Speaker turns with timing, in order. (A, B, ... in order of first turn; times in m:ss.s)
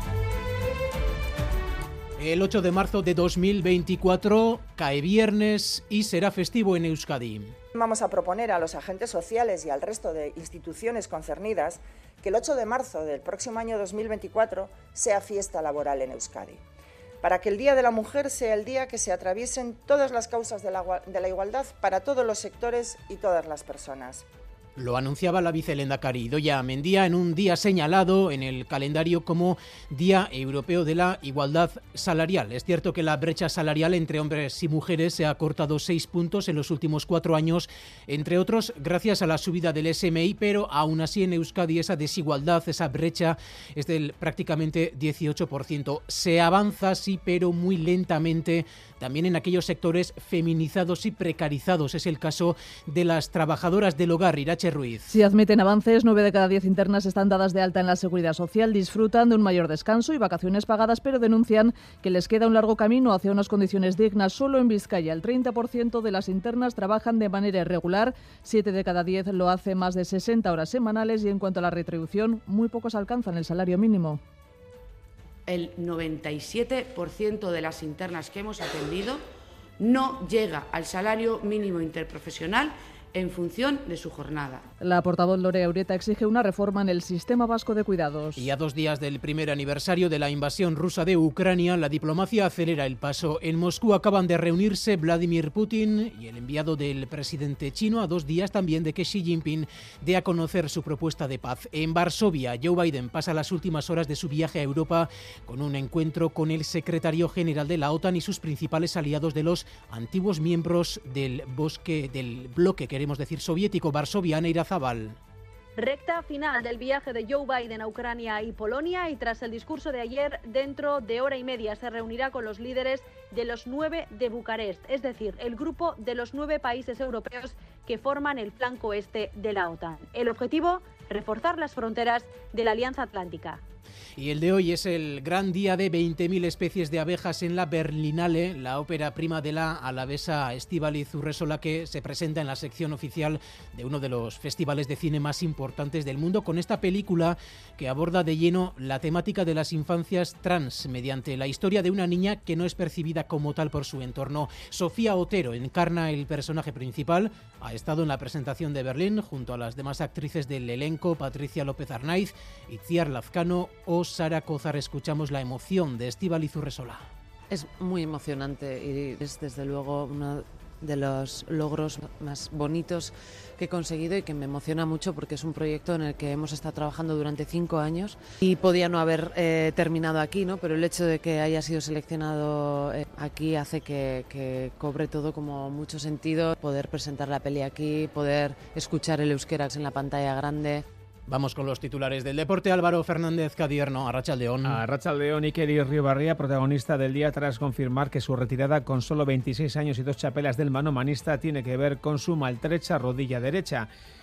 0:02.2-0:07.6 A
0:07.8-0:16.6 B
0:17.2-0:24.2 B
0:24.8-0:55.2 A
0:55.1-1:14.2 C
1:15.5-1:19.2 D
1:19.8-1:24.6 D
1:24.8-1:28.5 C
1:28.4-1:55.2 A
1:55.8-2:13.6 E
2:14.2-2:47.0 A
2:47.5-3:10.8 F
3:11.3-3:14.8 A
3:14.6-3:23.9 G